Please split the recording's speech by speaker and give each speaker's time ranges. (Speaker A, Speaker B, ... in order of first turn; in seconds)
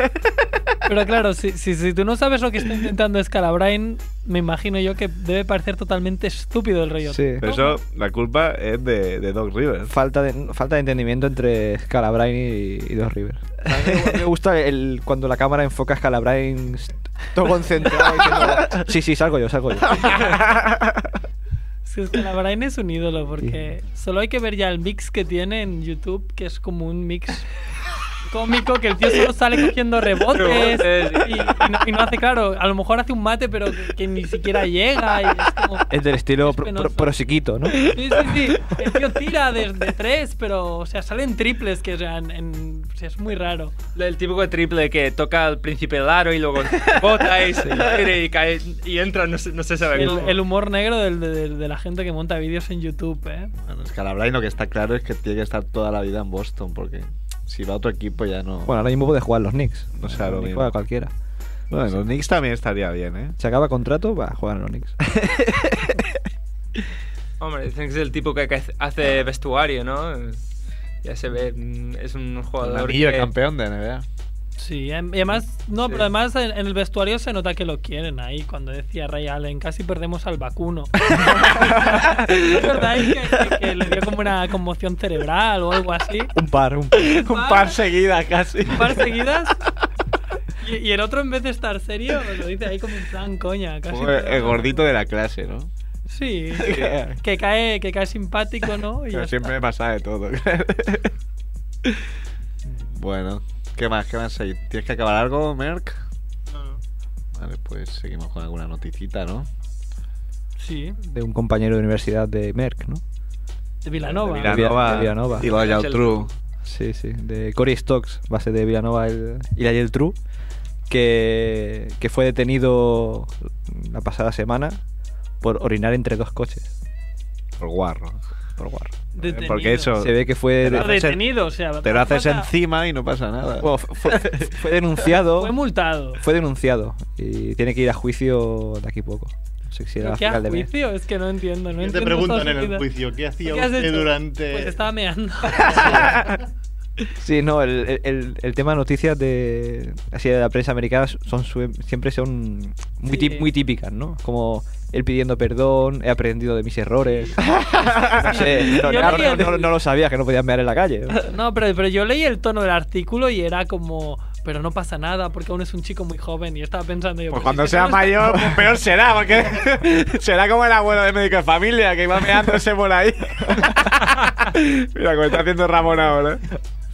Speaker A: 0.8-7.8, 21.9-27.5, 28.3-37.1, 37.8-43.8, 49.9-53.5, 74.6-86.3, 87.0-87.8, 88.7-89.6, 90.6-94.9, 96.1-99.5, 110.6-111.0, 113.8-115.3, 129.2-130.1, 130.8-132.5, 135.3-136.2, 140.0-142.9, 143.4-146.1, 153.1-153.5, 158.2-159.8, 161.2-168.3
Speaker B: 7.1-7.5, 9.9-20.4, 35.9-38.0, 58.7-61.1, 63.4-65.0, 86.3-87.2, 111.0-113.0, 114.4-115.5, 116.7-120.2, 120.9-124.8, 125.4-126.7, 128.6-128.9, 130.0-131.1, 133.6-135.6, 136.2-140.7, 147.2-161.3
Speaker C: 7.4-9.9, 13.7-14.2, 20.0-20.7, 53.6-58.8, 60.0-60.7, 61.7-63.4, 72.6-74.1, 81.6-82.0, 87.0-89.1, 93.9-95.7, 96.6-97.2, 99.1-101.1, 102.9-106.0, 107.3-109.5, 114.0-116.3, 127.6-128.2, 129.2-131.3, 131.8-134.4, 157.8-159.3, 167.3-176.4
Speaker D: 30.3-31.6, 44.0-50.4, 67.4-73.3, 115.3-116.3
Speaker E: 106.5-106.8, 141.8-144.8, 145.6-146.4